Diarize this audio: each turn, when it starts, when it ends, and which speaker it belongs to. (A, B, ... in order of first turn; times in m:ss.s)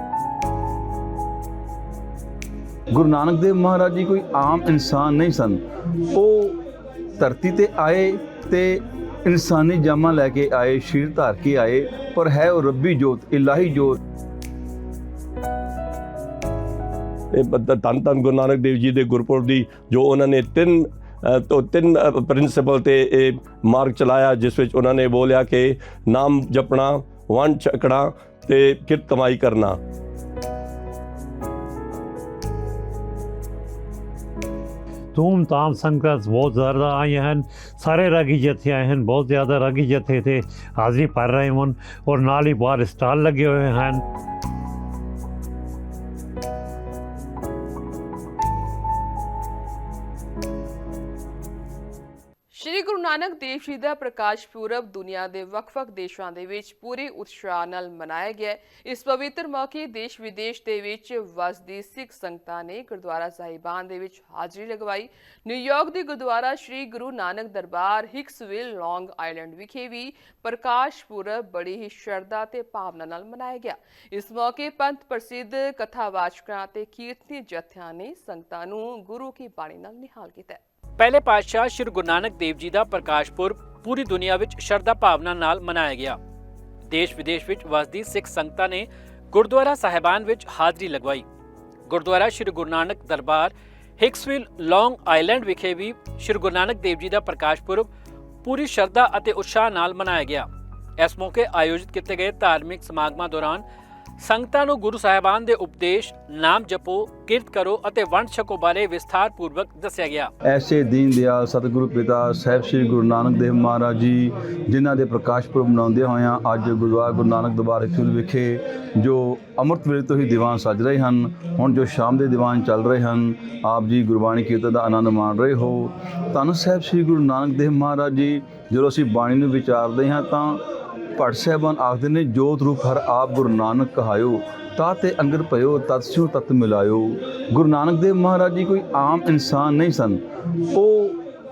0:02.9-0:05.6 A
0:06.1-0:06.6 A
0:07.2-0:14.0 A
0:17.3-0:29.8 B
0:35.1-0:44.0 C
0:43.3-0:43.7 B
0:52.5-1:20.6 D
1:21.0-1:26.2 E
1:26.9-1:31.2 E
1:31.9-1:37.9 E
1:38.4-1:40.5 E
1:41.0-1:43.6 E
1:44.2-1:50.3 E
1:50.5-2:10.6 A
2:11.2-2:20.2 A
2:20.7-2:21.2 A